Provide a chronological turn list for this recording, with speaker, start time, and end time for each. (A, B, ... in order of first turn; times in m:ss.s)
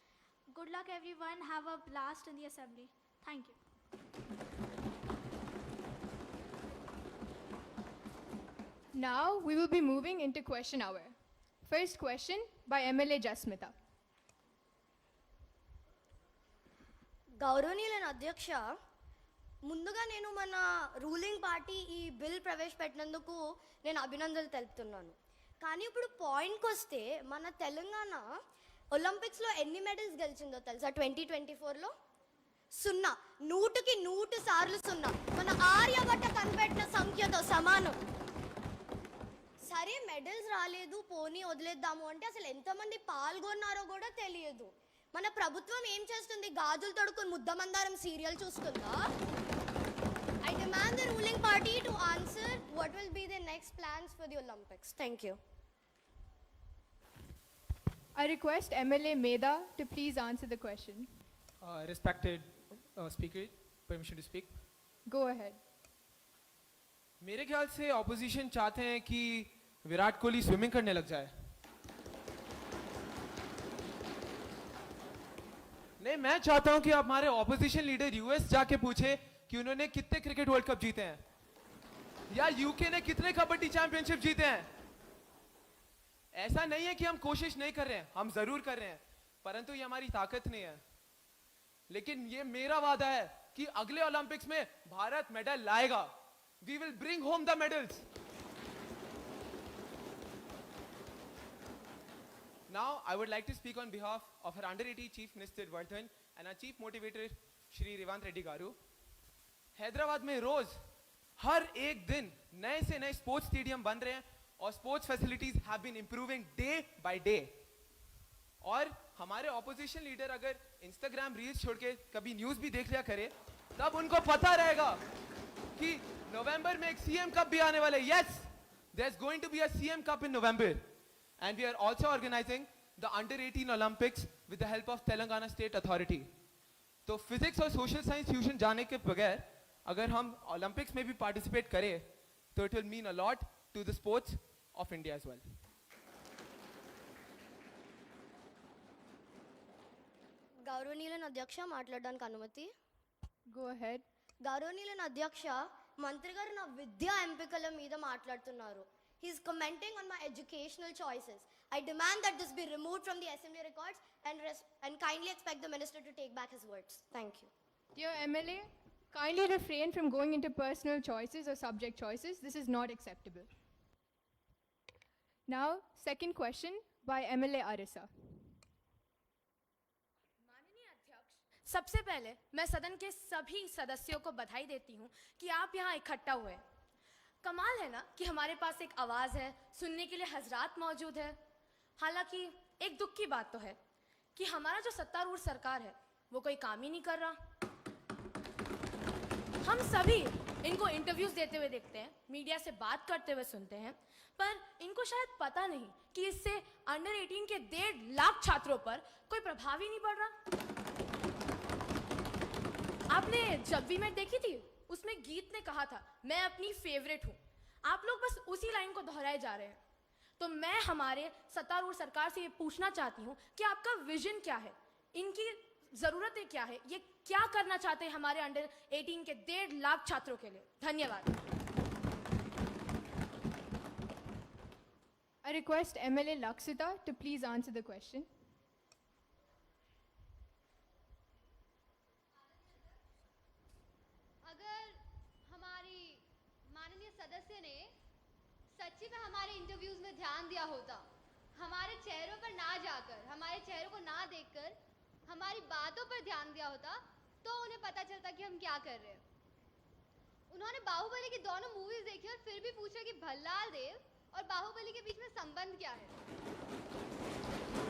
0:00.5-0:03.6 A
0:08.9-0:13.7 B
0:17.4-0:18.7 C
0:19.6-0:28.2 C
0:28.9-0:31.9 C
0:32.7-0:38.0 C
0:39.6-0:49.1 C
0:50.4-0:55.4 C
0:58.1-1:01.1 B
1:01.6-1:04.6 D
1:05.0-1:05.6 B
1:07.2-1:11.3 D
1:16.0-1:21.2 D
1:22.3-1:24.7 D
1:26.3-1:30.8 D
1:31.9-1:38.0 D
1:42.7-1:48.8 D
1:49.7-1:50.8 D
1:51.4-1:57.6 D
1:58.6-2:05.0 D
2:05.8-2:16.3 D
2:17.0-2:25.4 D
2:30.6-2:32.7 C
2:33.5-2:34.0 B
2:34.4-2:47.5 C
2:47.9-2:53.5 B
2:55.5-2:58.1 B
3:00.4-3:06.6 E
3:07.4-3:11.4 E
3:12.0-3:13.8 E
3:14.3-3:17.4 E
3:19.6-3:30.3 E
3:33.1-3:39.8 E
3:40.4-3:51.4 E
3:55.4-3:58.3 B
4:04.4-4:07.9 F
4:08.8-4:14.7 F
4:15.3-4:19.2 F
4:20.5-4:26.1 F